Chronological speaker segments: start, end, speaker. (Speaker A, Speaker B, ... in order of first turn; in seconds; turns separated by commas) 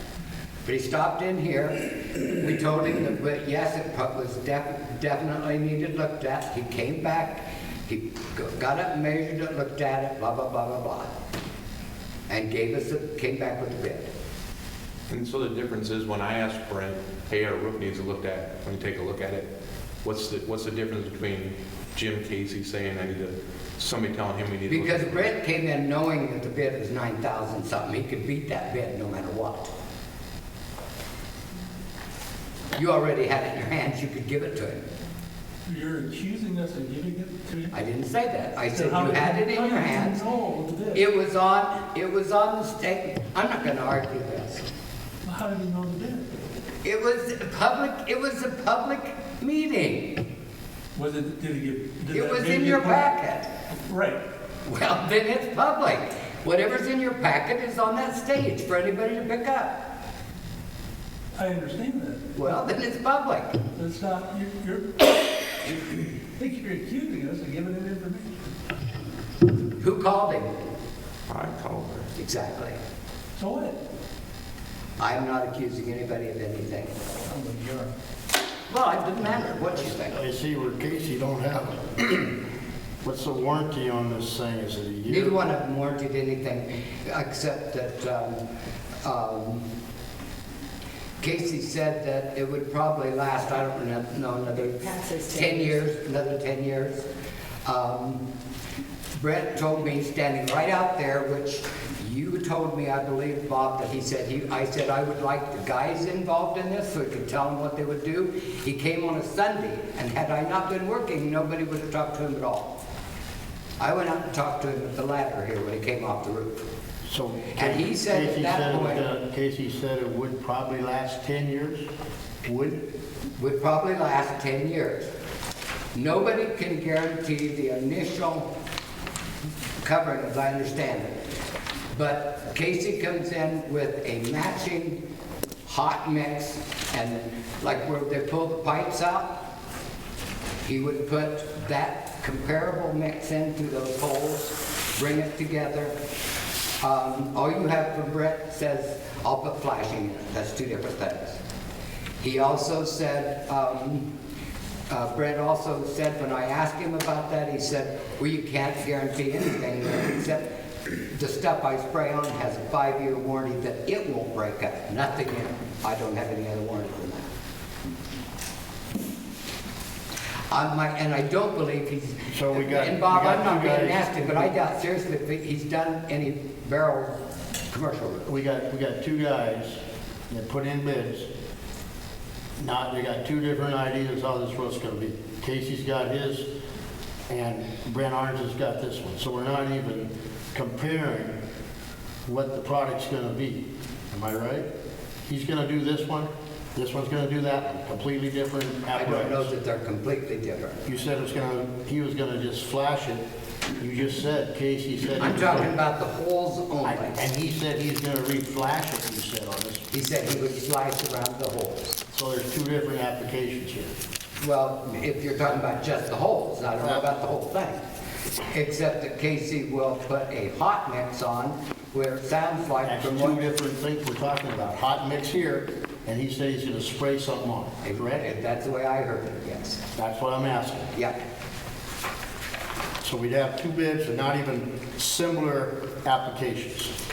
Speaker A: 0.7-11.1, Speaker A: 12.3-14.1, Speaker B: 15.1-19.5, Speaker B: 20.0-25.3, Speaker A: 24.7-29.7, Speaker A: 32.7-34.8, Speaker C: 35.7-37.7, Speaker A: 37.7-40.2, Speaker C: 38.7-41.0, Speaker A: 40.9-44.7, Speaker C: 45.2-46.3, Speaker A: 46.8-50.2, Speaker C: 51.0-53.0, Speaker A: 52.1-53.5, Speaker C: 53.9-54.2, Speaker A: 54.6-59.8, Speaker C: 61.4-62.3, Speaker A: 62.4-63.6, Speaker C: 63.8-65.7, Speaker C: 66.3-68.4, Speaker A: 69.8-70.5, Speaker B: 71.3-72.1, Speaker A: 72.2-72.8, Speaker C: 73.4-73.8, Speaker A: 75.0-77.2, Speaker C: 77.3-77.9, Speaker A: 78.7-80.2, Speaker D: 79.9-82.4, Speaker D: 83.0-85.4, Speaker A: 85.1-88.4, Speaker A: 89.0-89.7, Speaker A: 91.2-97.1, Speaker A: 97.7-98.2, Speaker A: 99.2-112.8, Speaker A: 113.8-116.6, Speaker D: 117.1-121.9, Speaker A: 117.5-119.1, Speaker D: 122.5-122.8, Speaker A: 123.4-125.1, Speaker A: 125.9-128.5, Speaker A: 129.8-131.1, Speaker A: 131.9-135.0, Speaker A: 135.7-139.4, Speaker A: 140.6-146.0, Speaker A: 146.8-151.4, Speaker A: 152.2-154.1, Speaker A: 154.9-167.3, Speaker A: 170.5-177.2, Speaker D: 172.3-174.4, Speaker A: 177.7-178.3, Speaker D: 178.3-181.3, Speaker D: 182.6-186.5, Speaker D: 187.3-191.4, Speaker D: 192.3-194.7, Speaker D: 195.3-199.5, Speaker A: 198.9-200.9, Speaker D: 200.9-203.2, Speaker D: 203.8-205.8, Speaker A: 205.2-207.2, Speaker D: 206.8-209.8, Speaker A: 209.9-211.9, Speaker D: 212.1-213.9, Speaker A: 214.4-217.8, Speaker D: 216.8-217.1, Speaker A: 218.5-223.4, Speaker D: 222.8-228.3, Speaker A: 227.8-229.8, Speaker D: 230.0-230.9, Speaker A: 230.9-231.2, Speaker D: 233.0-236.9